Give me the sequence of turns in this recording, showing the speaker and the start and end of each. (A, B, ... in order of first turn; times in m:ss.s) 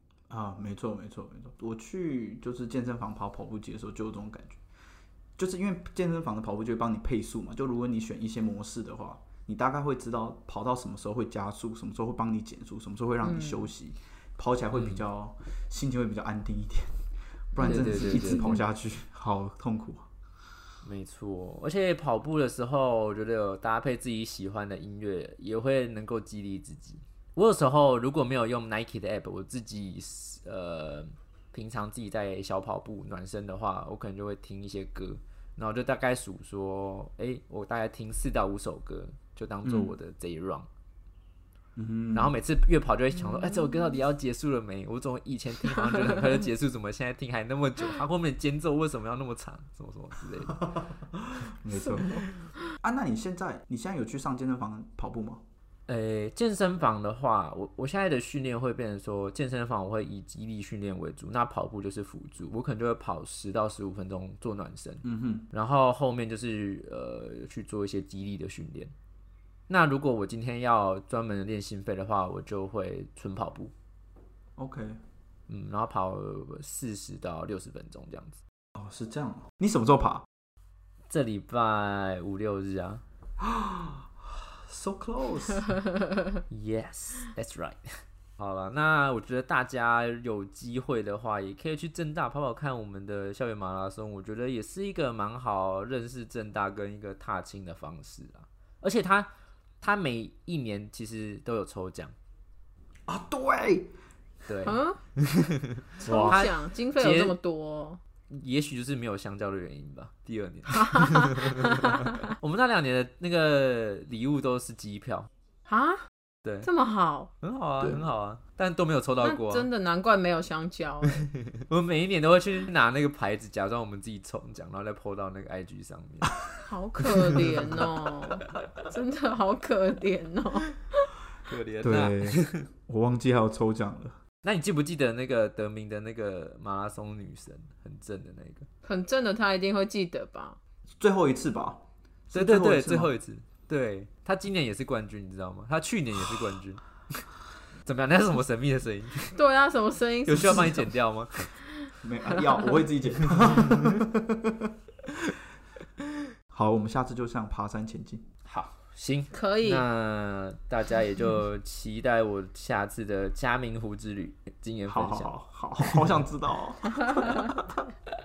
0:00.3-0:04.6 A
0:05.4-0:17.0 A
0:13.2-0:13.7 B
0:14.7-0:15.0 C
0:17.5-0:20.0 A
0:17.5-0:18.6 B
0:17.6-0:18.6 C
0:20.8-0:40.7 C
0:39.6-0:39.9 A
0:41.8-0:42.3 A
0:42.1-0:50.7 C
0:43.3-0:43.8 B
0:50.7-0:55.4 A
0:55.9-1:08.9 C
1:05.0-1:05.5 A
1:09.7-1:13.7 C
1:14.6-1:15.0 A
1:15.5-1:18.4 C
1:18.7-1:20.2 A
1:21.1-1:23.0 C
1:23.4-1:25.6 A
1:26.5-1:39.3 C
1:39.8-1:42.1 C
1:43.1-1:43.9 A
1:44.5-1:47.3 C
1:44.6-1:45.0 B
1:46.0-1:48.0 B
1:46.0-1:46.4 A
1:48.3-1:55.3 C
1:50.7-1:52.3 B
1:55.7-1:56.1 B
1:56.4-1:56.7 C
1:56.6-1:57.3 B
1:57.4-1:59.7 C
1:59.2-2:01.3 B
2:01.3-2:06.3 C
2:06.6-2:11.1 B
2:07.3-2:07.8 A
2:07.3-2:07.8 C
2:11.5-2:12.6 C
2:11.8-2:14.2 A
2:14.4-2:18.6 C
2:18.8-2:20.6 B
2:21.0-2:23.1 A
2:22.3-2:26.8 C
2:27.8-2:29.3 C
2:29.3-2:30.9 B
2:30.2-2:31.5 C
2:32.0-2:34.7 A
2:32.5-2:32.7 B
2:33.4-2:33.8 C
2:36.5-2:38.2 A
2:38.4-2:45.3 C
2:39.3-2:39.8 B
2:44.9-2:47.8 A